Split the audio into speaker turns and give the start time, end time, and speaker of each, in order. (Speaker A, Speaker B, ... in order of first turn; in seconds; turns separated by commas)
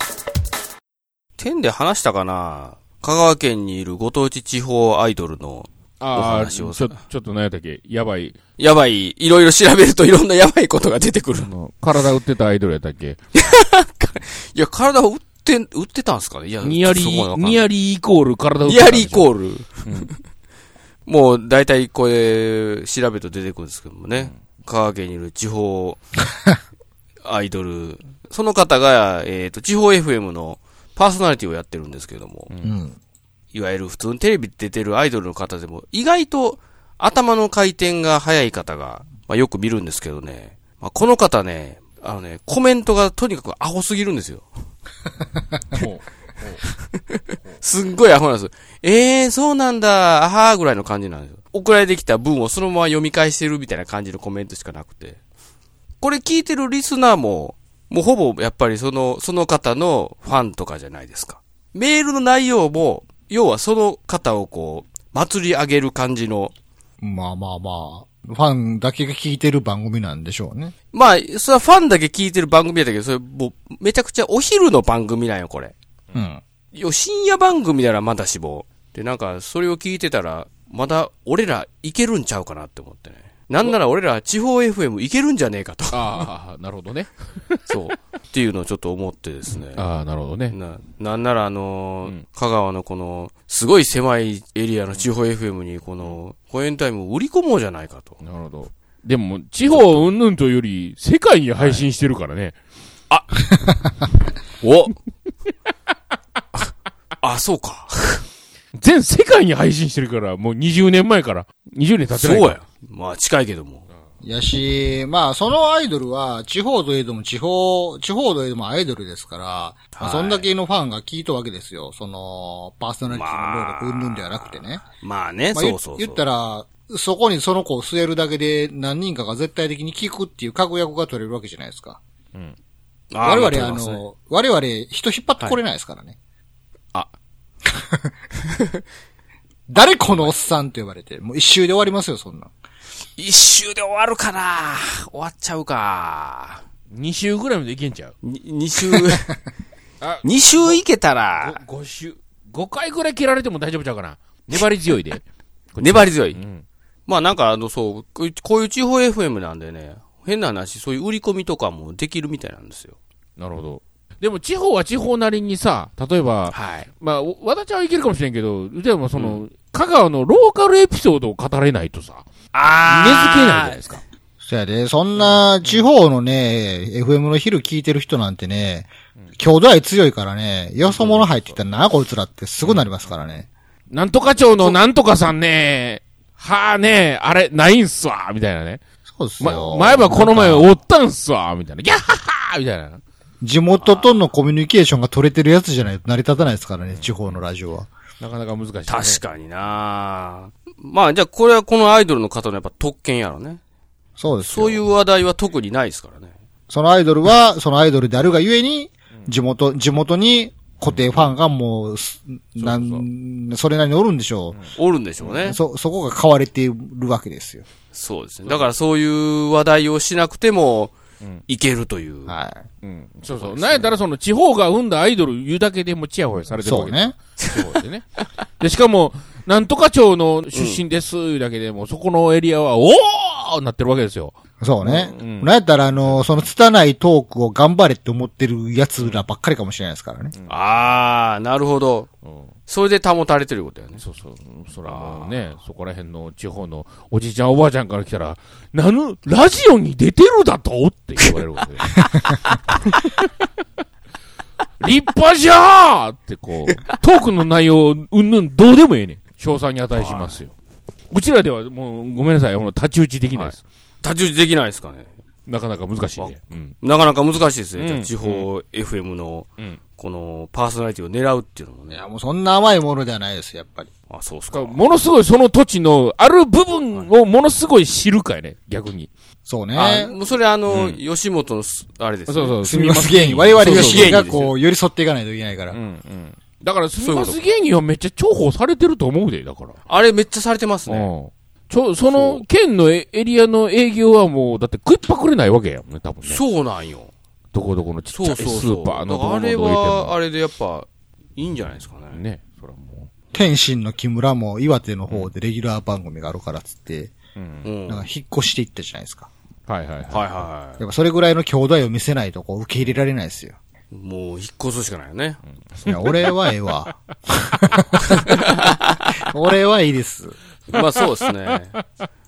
Speaker A: 1.4-7.0, Speaker B: 6.0-8.3, Speaker A: 8.6-11.5, Speaker B: 11.4-13.2, Speaker A: 13.3-17.6, Speaker B: 16.6-19.3, Speaker A: 18.6-20.1, Speaker A: 21.1-26.0, Speaker A: 27.3-32.5, Speaker B: 32.5-32.8, Speaker C: 32.6-33.0, Speaker A: 33.5-44.5, Speaker B: 45.7-46.6, Speaker A: 46.7-47.0, Speaker A: 47.6-55.2, Speaker A: 56.0-66.5, Speaker C: 67.0-70.7, Speaker A: 70.9-75.7, Speaker C: 76.1-76.4, Speaker A: 76.7-86.3, Speaker B: 85.9-87.6, Speaker A: 87.7-89.8, Speaker B: 89.7-90.5, Speaker A: 90.5-98.2, Speaker B: 98.2-102.5, Speaker A: 101.6-101.9, Speaker A: 104.6-104.9, Speaker A: 107.2-108.2, Speaker B: 108.8-112.6, Speaker A: 112.1-113.9, Speaker C: 114.2-124.8, Speaker A: 119.9-120.5, Speaker A: 123.0-126.2, Speaker C: 125.5-132.0, Speaker A: 133.1-134.0, Speaker C: 133.2-136.2, Speaker C: 139.7-142.5, Speaker A: 139.8-140.3, Speaker A: 143.2-146.6, Speaker B: 146.9-148.1, Speaker A: 148.2-149.4, Speaker B: 150.0-150.8, Speaker A: 150.2-151.6, Speaker B: 151.4-156.6, Speaker A: 155.8-156.4, Speaker A: 157.1-162.9, Speaker B: 163.4-172.3, Speaker A: 166.5-166.9, Speaker A: 169.2-169.4, Speaker A: 172.5-173.8, Speaker B: 172.8-174.0, Speaker C: 174.4-183.5, Speaker B: 175.2-175.9, Speaker B: 180.8-181.6, Speaker B: 182.6-183.1, Speaker B: 183.9-188.8, Speaker C: 189.1-190.7, Speaker B: 189.4-193.0, Speaker C: 193.4-197.9, Speaker A: 193.8-194.2, Speaker B: 196.9-197.4, Speaker B: 198.2-199.2, Speaker A: 198.9-203.6, Speaker C: 204.2-204.8, Speaker A: 204.4-206.3, Speaker C: 206.7-214.6, Speaker B: 210.8-211.3, Speaker B: 212.6-213.1, Speaker B: 214.5-215.5, Speaker A: 214.8-215.6, Speaker C: 215.4-217.7, Speaker A: 217.9-220.9, Speaker A: 221.5-222.3, Speaker C: 222.3-222.7, Speaker B: 222.8-228.1, Speaker A: 223.3-223.9, Speaker C: 226.6-227.1, Speaker B: 228.6-236.4, Speaker A: 230.5-230.8, Speaker C: 234.6-240.3, Speaker B: 239.0-239.2, Speaker A: 240.5-242.1, Speaker B: 242.2-242.5, Speaker A: 242.7-244.0, Speaker B: 244.0-252.2, Speaker A: 244.8-245.4, Speaker B: 254.8-260.5, Speaker A: 259.9-260.4, Speaker B: 261.1-263.6, Speaker A: 263.3-265.1, Speaker B: 265.5-266.8, Speaker A: 266.2-272.0, Speaker B: 267.8-268.5, Speaker C: 271.9-273.9, Speaker A: 274.1-274.8, Speaker B: 274.5-279.1, Speaker C: 279.4-280.1, Speaker A: 279.7-282.6, Speaker B: 280.7-281.0, Speaker B: 282.3-284.3, Speaker C: 282.6-285.8, Speaker A: 283.6-284.6, Speaker B: 285.7-289.8, Speaker A: 287.0-287.4, Speaker A: 289.9-291.1, Speaker B: 290.9-296.4, Speaker A: 292.1-292.4, Speaker A: 296.2-297.1, Speaker B: 297.5-300.1, Speaker A: 298.1-302.2, Speaker B: 302.1-303.1, Speaker C: 303.3-307.1, Speaker B: 307.4-307.7, Speaker A: 307.6-308.1, Speaker C: 307.9-309.3, Speaker B: 309.7-310.4, Speaker A: 310.1-310.8, Speaker C: 310.8-313.6, Speaker A: 313.9-315.4, Speaker B: 315.7-316.4, Speaker C: 315.8-317.9, Speaker A: 318.0-319.1, Speaker C: 319.3-320.4, Speaker A: 320.7-321.8